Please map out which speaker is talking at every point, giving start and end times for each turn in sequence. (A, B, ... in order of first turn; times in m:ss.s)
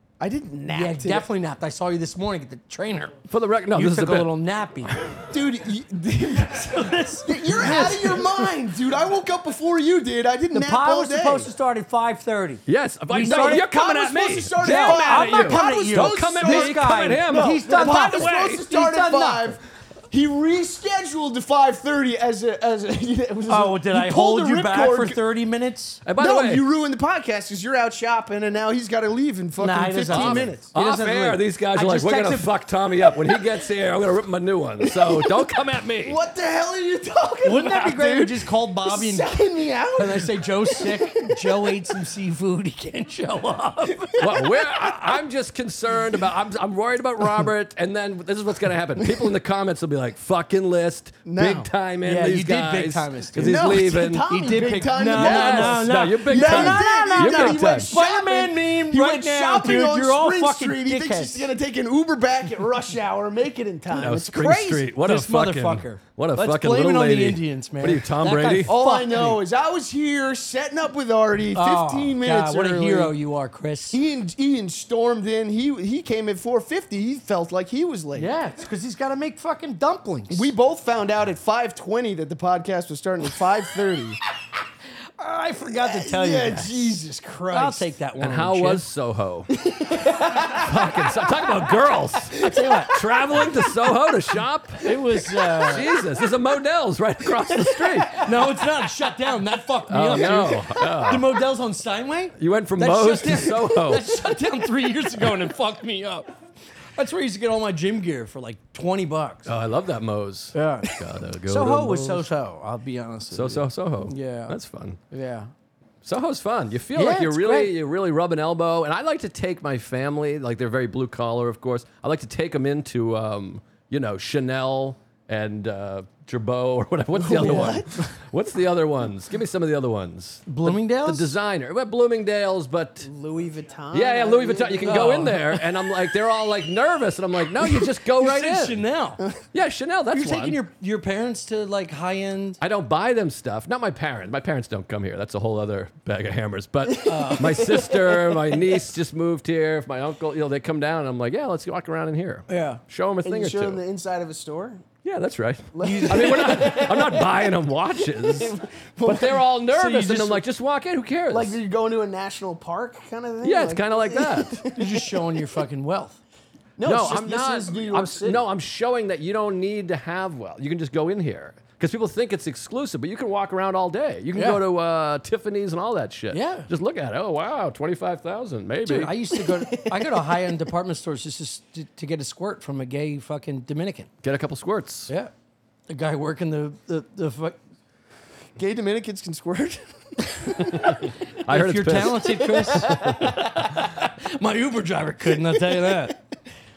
0:00.2-0:01.3 A
0:00.7-0:03.2 B
0:03.3-0:04.3 C
0:03.7-0:05.0 B
0:04.9-0:05.1 C
0:05.1-0:11.5 A
0:06.6-0:08.5 B
0:10.5-0:13.7 B
0:12.7-0:18.6 C
0:13.2-0:25.2 A
0:14.6-0:19.6 B
0:23.5-0:26.0 B
0:26.0-0:26.6 C
0:26.2-0:30.7 A
0:29.6-0:32.5 B
0:30.1-0:36.2 C
0:34.8-0:35.5 A
0:36.0-0:42.0 A
0:37.4-0:39.3 B
0:40.0-0:44.4 B
0:43.9-0:44.5 A
0:44.2-0:54.2 C
0:49.0-0:49.3 A
0:51.2-0:51.7 A
0:52.0-1:01.5 B
0:53.4-1:04.6 A
0:55.1-0:58.0 C
1:03.9-1:08.7 C
1:04.2-1:09.4 B
1:08.6-1:13.2 A
1:11.5-1:14.0 B
1:13.9-1:18.3 A
1:18.1-1:20.5 B
1:20.3-1:24.2 A
1:25.2-1:27.0 B
1:25.7-1:27.9 A
1:27.5-1:28.8 B
1:28.2-1:29.5 C
1:29.5-1:31.7 A
1:30.3-1:34.8 C
1:32.4-1:33.0 B
1:32.5-1:33.0 A
1:34.8-1:35.9 B
1:35.4-1:35.8 A
1:35.6-1:38.2 C
1:37.4-1:38.5 A
1:38.2-1:46.3 B
1:39.9-1:41.4 C
1:42.4-1:44.3 C
1:46.9-1:49.5 B
1:49.4-1:52.3 C
1:50.5-1:54.6 B
1:53.3-1:55.0 C
1:55.1-1:55.5 B
1:56.0-2:13.1 C
1:56.9-1:57.7 B
2:07.2-2:07.9 A
2:07.2-2:08.1 B
2:10.4-2:11.3 B
2:13.0-2:15.3 A
2:13.9-2:18.8 C
2:14.8-2:15.7 B
2:17.7-2:19.2 B
2:19.5-2:20.6 C
2:20.1-2:22.6 B
2:22.6-2:33.8 C
2:26.8-2:28.6 A
2:27.0-2:27.8 B
2:32.5-2:32.8 B
2:33.2-2:34.8 A
2:35.0-2:41.6 C
2:35.7-2:39.4 A
2:35.8-2:36.4 B
2:39.7-2:40.4 B
2:41.3-2:45.4 A
2:43.4-2:44.6 C
2:44.7-2:46.2 B
2:46.8-2:48.4 A
2:46.8-2:59.2 C
2:54.3-2:54.6 B
2:56.3-2:56.7 B
2:58.8-3:04.1 B
2:59.3-3:00.6 A
3:04.2-3:05.1 C
3:05.9-3:07.6 B
3:08.6-3:11.1 A
3:10.7-3:13.4 C
3:11.5-3:16.2 B
3:12.2-3:13.4 A
3:15.3-3:16.2 A